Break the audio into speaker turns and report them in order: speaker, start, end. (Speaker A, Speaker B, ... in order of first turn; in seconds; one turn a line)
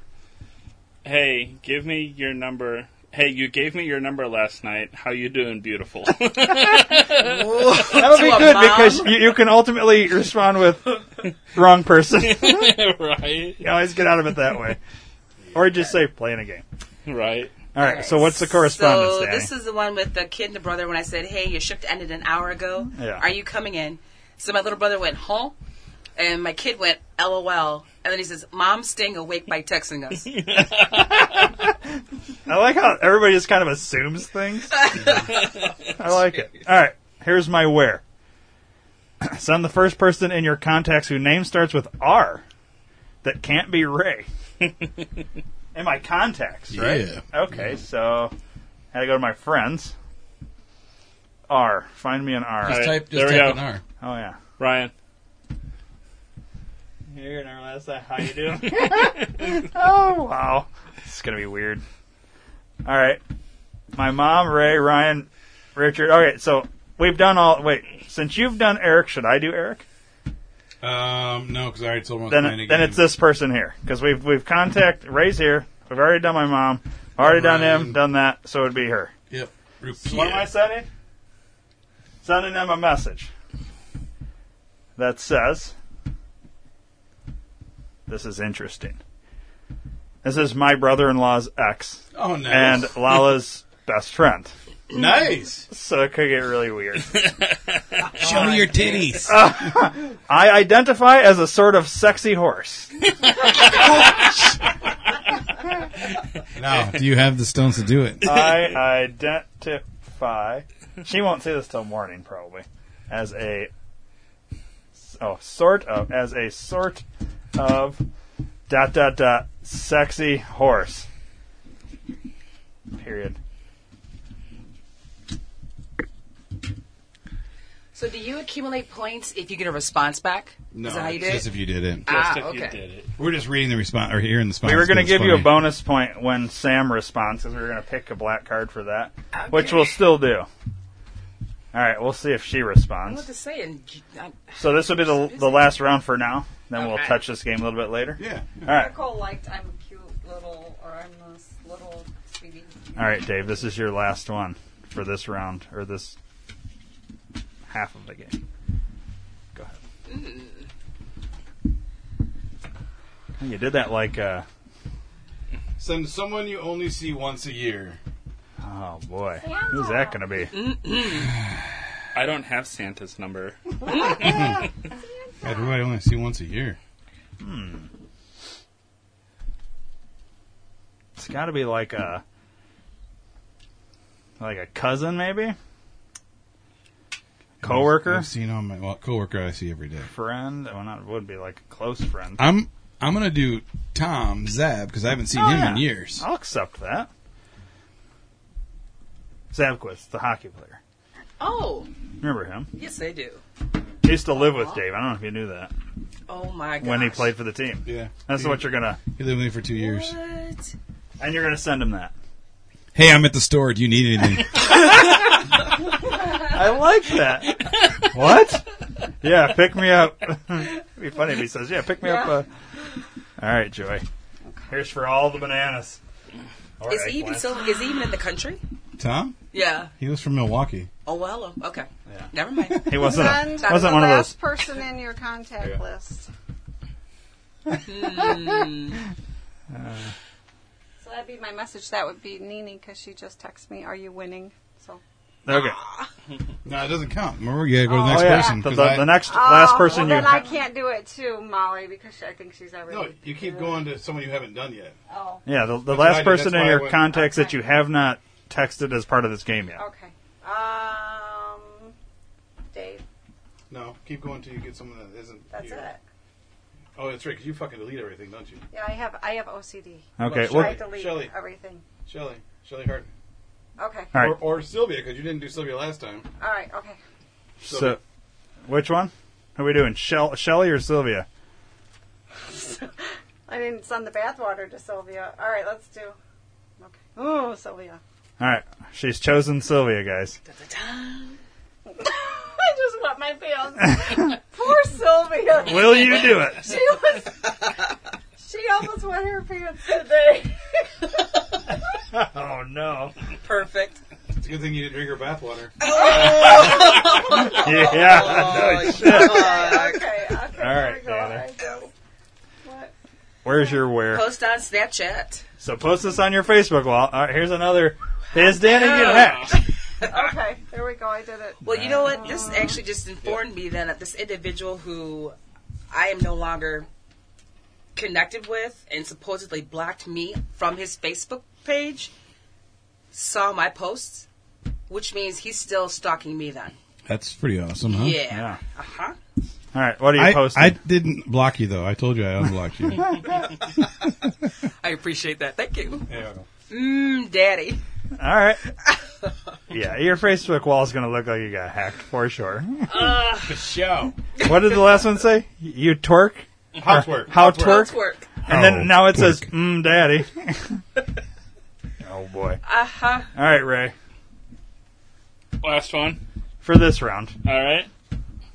Speaker A: 1.0-7.6
Speaker B: 7.2-9.2
Speaker C: 7.9-12.7
Speaker A: 12.2-13.7
Speaker C: 13.6-14.8
Speaker D: 15.4-15.7
Speaker C: 15.5-16.6
Speaker A: 17.1-17.5
Speaker C: 17.7-19.5
Speaker B: 17.8-25.6
Speaker C: 22.9-23.2
Speaker B: 26.1-30.3
Speaker A: 30.3-31.3
Speaker C: 30.9-31.7
Speaker C: 32.5-35.1
Speaker B: 34.7-35.4
Speaker C: 36.0-38.0
Speaker B: 36.0-36.6
Speaker C: 39.2-42.4
Speaker C: 43.2-44.3
Speaker C: 45.7-48.3
Speaker D: 46.7-47.2
Speaker C: 48.9-49.9
Speaker C: 51.5-52.9
Speaker D: 52.6-53.8
Speaker A: 52.6-53.6
Speaker C: 54.0-54.4
Speaker A: 54.6-54.9
Speaker C: 57.1-61.8
Speaker C: 62.8-63.2
Speaker C: 63.9-69.8
Speaker D: 70.8-73.1
Speaker C: 72.3-79.1
Speaker D: 77.2-78.0
Speaker D: 79.3-80.5
Speaker C: 80.0-80.9
Speaker C: 82.2-83.3
Speaker C: 85.0-85.7
Speaker C: 88.1-89.0
Speaker C: 90.2-94.5
Speaker D: 92.1-93.0
Speaker D: 94.9-95.7
Speaker C: 95.7-97.2
Speaker B: 98.1-99.3
Speaker D: 98.2-99.7
Speaker C: 99.2-103.0
Speaker D: 106.5-108.3
Speaker C: 108.2-113.7
Speaker A: 108.3-108.6
Speaker C: 115.0-118.0
Speaker C: 118.7-121.1
Speaker C: 122.9-123.4
Speaker B: 127.9-131.5
Speaker D: 130.7-132.1
Speaker B: 132.0-132.8
Speaker A: 132.1-133.1
Speaker D: 133.2-135.7
Speaker C: 134.6-140.5
Speaker B: 139.3-140.0
Speaker C: 141.7-143.3
Speaker B: 143.0-145.8
Speaker C: 144.6-148.9
Speaker B: 146.7-147.2
Speaker D: 148.2-148.7
Speaker E: 148.7-153.3
Speaker C: 153.0-156.2
Speaker C: 157.7-158.4
Speaker B: 160.1-160.7
Speaker C: 163.4-164.4
Speaker D: 165.8-168.0
Speaker C: 168.6-170.5
Speaker E: 169.4-170.2
Speaker B: 170.5-171.3
Speaker A: 172.1-174.5
Speaker D: 174.1-174.6
Speaker E: 174.9-175.7
Speaker D: 175.4-176.8
Speaker C: 177.4-177.9
Speaker C: 181.2-182.2
Speaker C: 184.4-185.6
Speaker D: 187.6-190.1
Speaker C: 187.6-188.3
Speaker C: 190.1-192.4
Speaker D: 192.4-196.2
Speaker C: 195.3-197.1
Speaker C: 199.5-200.8
Speaker B: 201.4-201.9
Speaker C: 202.2-202.7
Speaker B: 202.7-203.4
Speaker C: 204.0-205.7
Speaker B: 204.3-204.8
Speaker B: 206.3-207.3
Speaker C: 206.8-209.0
Speaker D: 207.8-210.1
Speaker B: 209.7-210.7
Speaker C: 211.2-212.1
Speaker D: 212.9-214.8
Speaker C: 216.3-218.7
Speaker C: 219.2-222.5
Speaker E: 222.0-222.3
Speaker C: 223.4-224.0
Speaker C: 224.7-226.0
Speaker C: 226.8-227.6
Speaker B: 226.9-228.6
Speaker D: 229.0-229.4
Speaker B: 229.5-229.9
Speaker D: 230.0-230.9
Speaker B: 231.1-234.0
Speaker C: 232.1-234.3
Speaker E: 233.0-236.3
Speaker B: 237.8-239.0
Speaker C: 239.7-240.1
Speaker E: 241.0-245.0
Speaker C: 245.4-245.8
Speaker B: 245.5-246.1
Speaker D: 246.6-249.2
Speaker E: 247.9-253.8
Speaker C: 248.0-250.6
Speaker D: 252.9-254.9
Speaker E: 255.1-255.4
Speaker C: 255.4-259.8
Speaker D: 255.9-257.0
Speaker E: 257.1-257.6
Speaker E: 259.8-261.9
Speaker E: 262.7-263.0
Speaker D: 263.7-265.8
Speaker E: 265.5-266.0
Speaker D: 266.9-268.6
Speaker E: 268.7-271.8
Speaker C: 270.2-270.9
Speaker D: 270.2-271.3
Speaker D: 272.1-273.1
Speaker E: 273.8-274.1
Speaker C: 274.1-274.4
Speaker D: 274.1-276.3
Speaker E: 276.4-277.0
Speaker C: 277.6-278.0
Speaker D: 277.7-278.0
Speaker C: 278.6-281.3
Speaker E: 282.4-286.2
Speaker E: 286.8-288.0
Speaker C: 288.4-290.4
Speaker B: 290.4-291.4
Speaker E: 291.9-297.8
Speaker C: 295.5-296.7
Speaker E: 298.4-301.1
Speaker C: 302.1-303.1
Speaker B: 303.4-304.0
Speaker D: 304.4-305.7
Speaker B: 305.8-310.1
Speaker E: 306.3-307.5
Speaker C: 307.3-309.6
Speaker E: 308.4-311.9
Speaker C: 310.6-311.4
Speaker E: 312.6-312.9
Speaker C: 313.4-314.2
Speaker E: 313.5-313.7
Speaker B: 314.1-315.4
Speaker C: 315.6-319.6
Speaker B: 318.3-320.0
Speaker A: 318.8-319.6
Speaker E: 320.0-322.8
Speaker B: 321.6-325.4
Speaker C: 321.7-322.1
Speaker B: 325.9-326.9
Speaker B: 327.9-332.1
Speaker B: 333.1-334.3
Speaker B: 334.9-336.7
Speaker D: 337.1-338.2
Speaker B: 337.9-339.1
Speaker C: 338.3-338.6
Speaker C: 339.7-340.8
Speaker D: 340.1-343.2
Speaker B: 344.8-346.1
Speaker D: 346.1-346.4
Speaker B: 346.7-347.8
Speaker C: 348.2-348.6
Speaker C: 349.7-353.1
Speaker B: 352.9-353.5
Speaker D: 353.4-354.1
Speaker C: 354.4-357.9
Speaker D: 356.7-357.9
Speaker B: 357.3-358.3
Speaker C: 358.5-360.8
Speaker D: 358.5-359.5
Speaker C: 362.0-362.6
Speaker B: 362.6-363.3
Speaker C: 363.3-363.9
Speaker A: 365.6-366.2
Speaker C: 366.6-367.4
Speaker A: 367.4-367.9